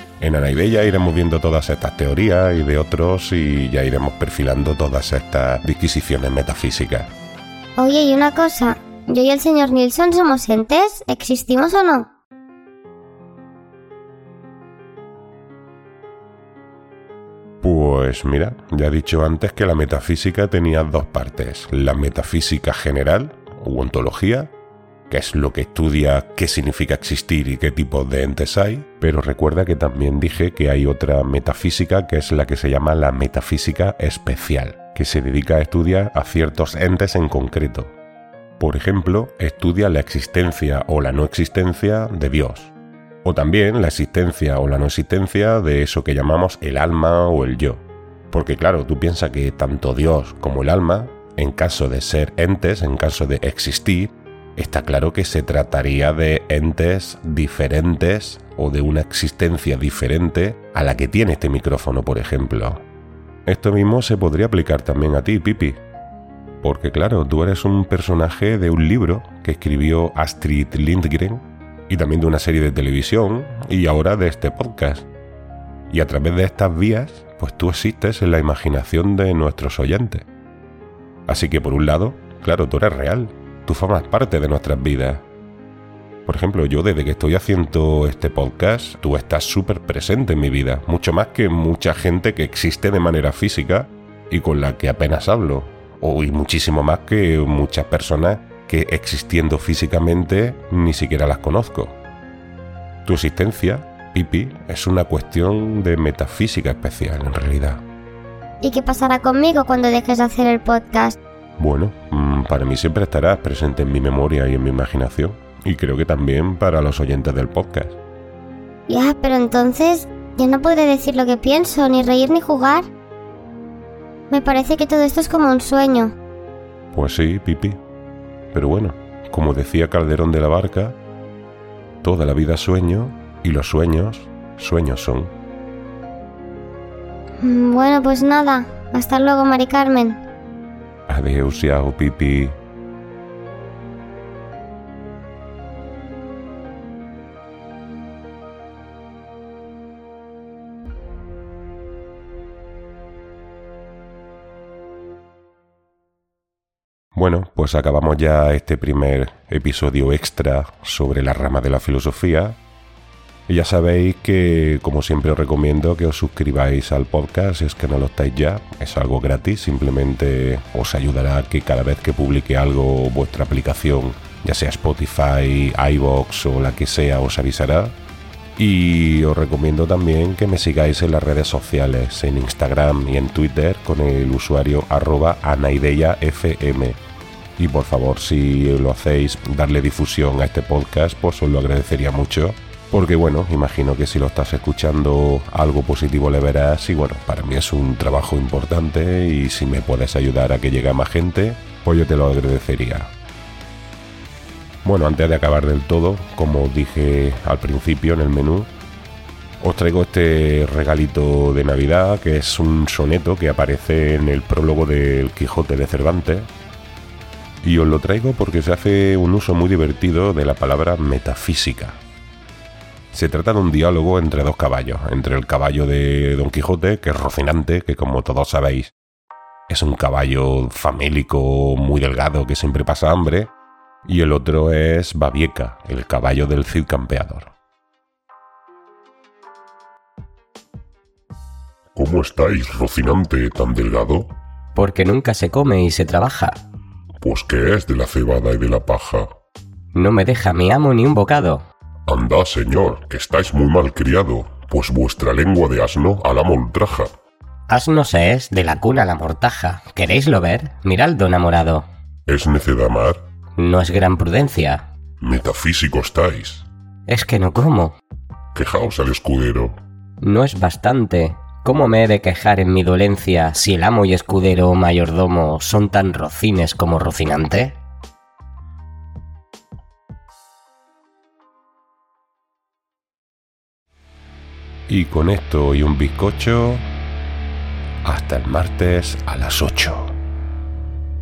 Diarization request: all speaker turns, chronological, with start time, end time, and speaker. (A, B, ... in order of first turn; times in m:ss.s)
0:00.2-0:07.1 A
0:07.8-0:12.1 B
0:17.6-0:24.5 A
0:25.1-0:37.9 A
0:38.6-0:42.7 A
0:43.2-1:02.8 A
1:03.5-1:05.8 A
1:06.6-1:15.1 A
1:15.9-1:20.2 A
1:21.3-1:25.2 A
1:26.3-1:41.9 A
1:43.1-1:47.8 A
1:48.6-1:51.2 B
1:51.6-1:58.0 A
1:58.9-2:02.9 B
2:04.3-2:06.2 B
2:06.9-2:07.8 A
2:08.5-2:11.0 A
2:12.0-2:15.3 A
2:17.4-2:20.2 B
2:21.1-2:22.6 A
2:37.2-2:42.6 A
2:43.5-2:57.9 A
2:58.6-3:07.0 A
3:07.6-3:23.1 A
3:24.8-3:28.7 A
3:29.6-3:36.5 A
3:37.6-3:42.0 A
3:43.1-3:48.9 A
3:49.7-3:53.5 A
3:54.1-3:57.5 A
4:02.0-4:04.3 C
4:04.8-4:06.6 D
4:07.2-4:09.3 C
4:10.0-4:11.6 D
4:12.1-4:17.1 C
4:17.7-4:21.9 D
4:22.3-4:23.2 C
4:23.6-4:24.8 D
4:25.2-4:26.6 C
4:27.1-4:28.0 D
4:28.6-4:29.8 C
4:30.2-4:37.8 D
4:44.9-4:46.8 A
4:48.0-4:50.1 A